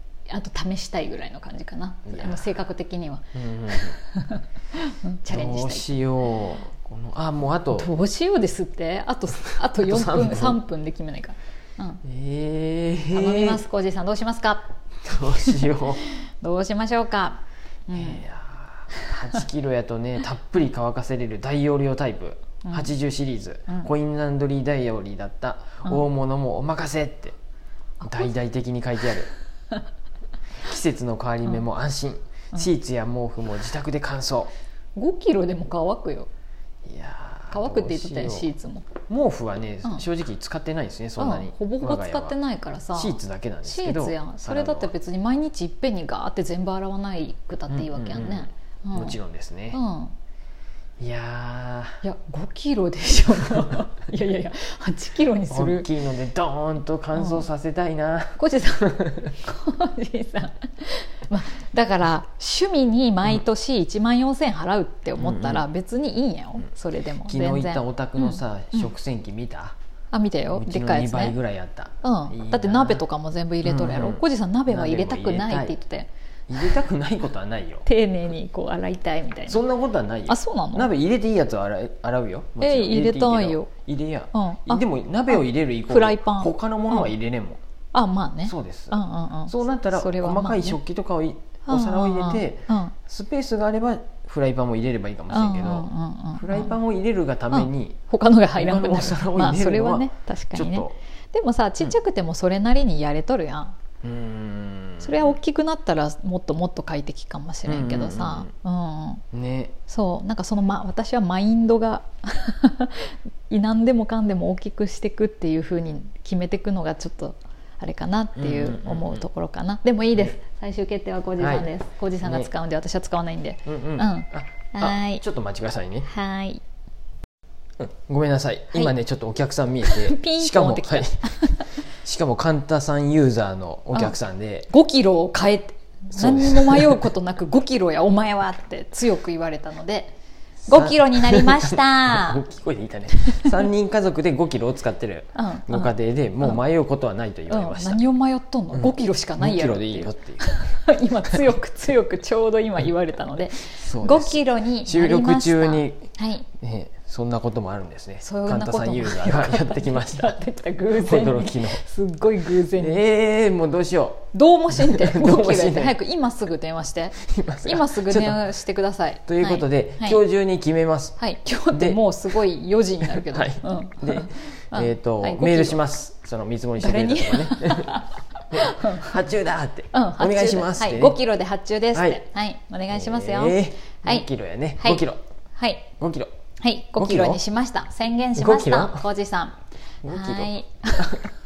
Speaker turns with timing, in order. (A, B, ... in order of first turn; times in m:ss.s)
0:00.3-0:05.9 A
0:02.1-0:02.6 B
0:03.3-0:04.0 B
0:05.3-0:07.9 B
0:07.7-0:12.0 A
0:09.4-0:10.6 B
0:12.0-0:13.6 B
0:13.1-0:18.2 A
0:15.0-0:16.0 B
0:17.9-0:27.4 B
0:22.6-0:22.9 A
0:28.0-0:28.3 A
0:28.0-0:29.3 B
0:30.6-0:34.5 B
0:35.0-0:36.3 A
0:36.8-0:38.5 B
0:37.5-0:39.0 A
0:39.1-0:42.4 B
0:41.2-0:49.2 A
0:42.9-0:44.9 B
0:47.7-0:49.8 B
0:49.7-0:50.1 A
0:51.0-0:52.0 B
0:52.0-0:55.9 A
0:55.5-0:59.3 B
0:57.1-0:57.4 A
0:58.4-1:08.9 A
1:05.2-1:05.6 B
1:07.2-1:09.8 B
1:10.1-1:11.4 A
1:10.5-1:13.0 B
1:12.0-1:16.1 A
1:13.6-1:15.8 B
1:16.5-1:17.9 B
1:17.9-1:19.6 A
1:19.5-1:27.6 B
1:20.3-1:20.9 A
1:22.6-1:23.7 A
1:24.3-1:27.1 A
1:27.9-1:30.8 A
1:28.4-1:38.0 B
1:31.7-1:32.9 A
1:35.3-1:36.8 A
1:37.5-1:43.8 A
1:38.6-1:41.0 B
1:44.0-1:45.4 B
1:45.0-1:49.2 A
1:47.7-1:48.5 B
1:49.3-1:49.8 B
1:49.9-2:05.2 A
1:58.4-1:59.3 B
2:01.4-2:01.7 B
2:02.2-2:02.5 B
2:03.6-2:06.1 B
2:06.0-2:06.6 A
2:07.8-2:14.7 B
2:09.8-2:11.7 A
2:14.7-2:20.1 A
2:16.1-2:17.1 B
2:20.6-2:28.0 B
2:20.7-2:22.4 A
2:23.2-2:23.6 A
2:25.4-2:26.6 A
2:27.5-2:36.5 A
2:28.7-2:30.5 B
2:33.7-2:40.4 B
2:38.2-2:43.0 A
2:40.9-2:41.8 B
2:42.8-2:46.0 B
2:44.3-2:50.2 A
2:47.2-2:48.4 B
2:49.3-2:51.2 B
2:51.2-2:55.8 A
2:51.7-2:52.0 B
2:53.1-3:01.2 B
2:56.8-2:59.2 A
2:59.9-3:04.3 A
3:01.9-3:02.2 B
3:02.9-3:05.2 B
3:04.8-3:05.9 A
3:06.0-3:06.3 B
3:06.6-3:09.6 A
3:07.0-3:07.4 B
3:08.4-3:09.1 B
3:10.0-3:11.3 B
3:10.1-3:11.3 A